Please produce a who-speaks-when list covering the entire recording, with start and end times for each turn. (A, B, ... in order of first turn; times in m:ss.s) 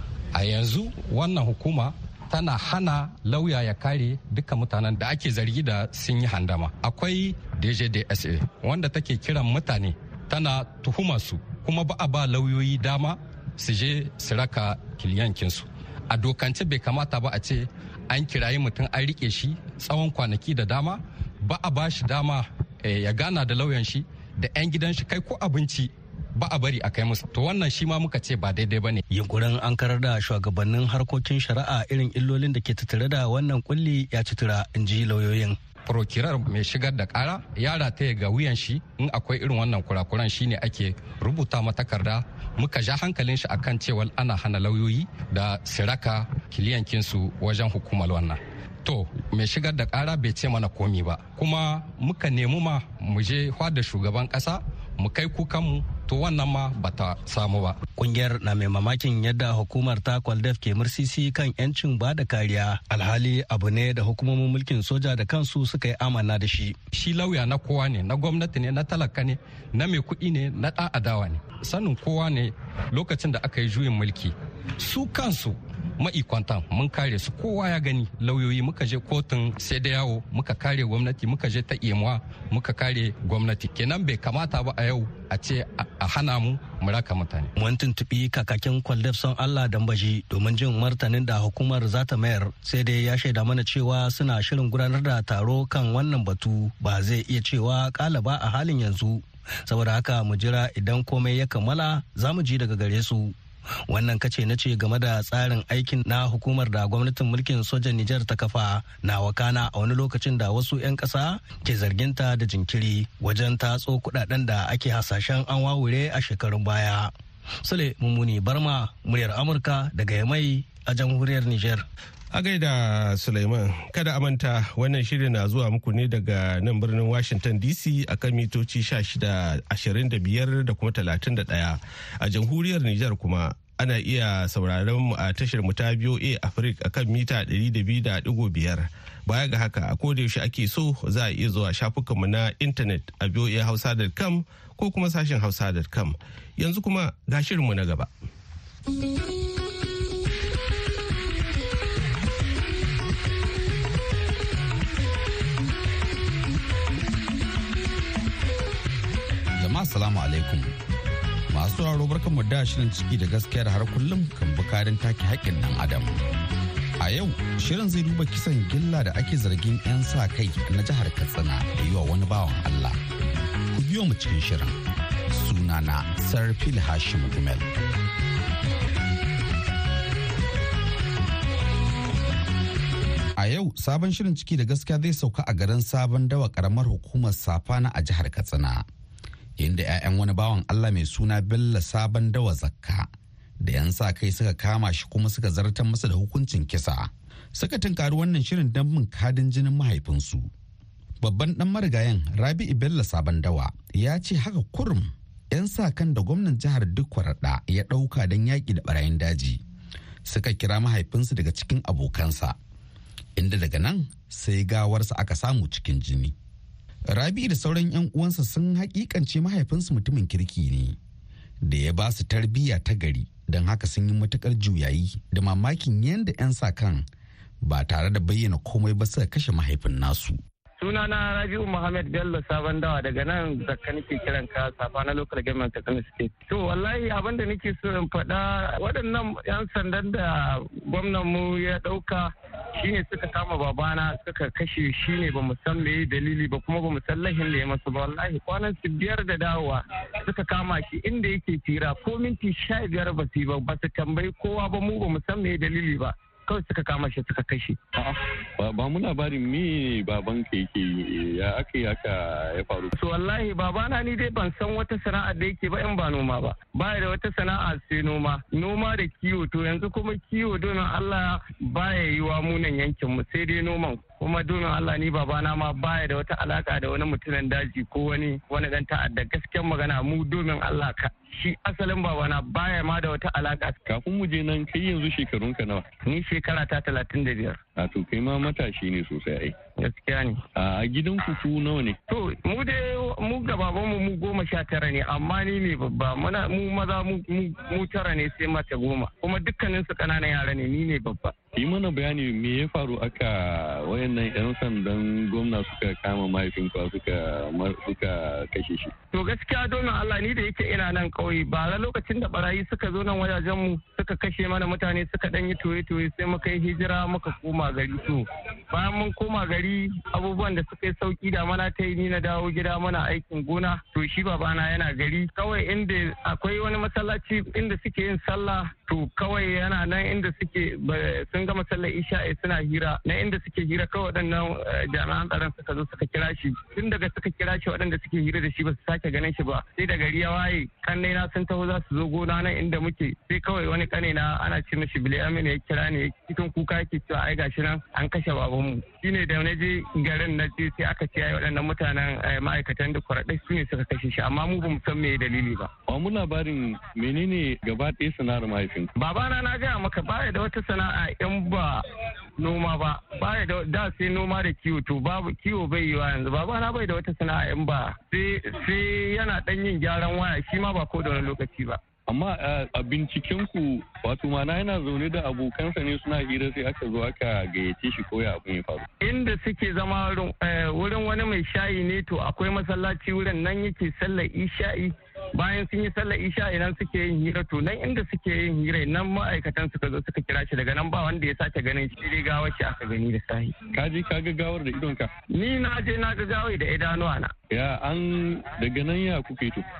0:00.3-0:29.0 A
0:29.1-0:35.6 B
0:35.9-0:57.8 A
0:58.0-1:06.8 B
1:06.9-1:27.5 A
1:27.6-1:43.4 B
1:43.9-1:57.1 B
1:57.6-2:01.8 B
2:02.3-2:28.1 C
2:39.6-2:40.7 D
2:41.5-2:46.2 D
2:47.0-2:53.0 D
2:53.7-2:54.8 D
2:55.3-2:57.7 D
3:03.4-3:08.8 D
3:09.6-3:13.1 D
3:13.6-3:20.5 D
3:21.2-3:29.6 D
3:30.2-3:32.6 D
3:33.4-3:36.4 D
3:37.1-3:41.0 D
3:41.6-3:47.0 D
3:47.6-3:50.4 D
3:50.8-4:17.8 E
4:18.0-4:22.9 F
4:23.0-4:43.8 E
4:43.9-4:45.9 F
4:46.1-4:47.6 E
4:47.8-4:49.5 F
4:49.8-4:50.4 E
4:50.6-4:52.0 F
4:52.1-5:01.4 E
5:01.6-5:08.9 F
5:09.1-5:55.7 E
5:55.9-5:58.9 F
5:59.0-6:01.8 E
6:02.4-6:11.8 E
6:12.1-6:18.9 F
6:19.0-6:33.5 E
6:33.7-6:35.1 F
6:35.3-6:37.3 E
6:37.5-6:39.6 F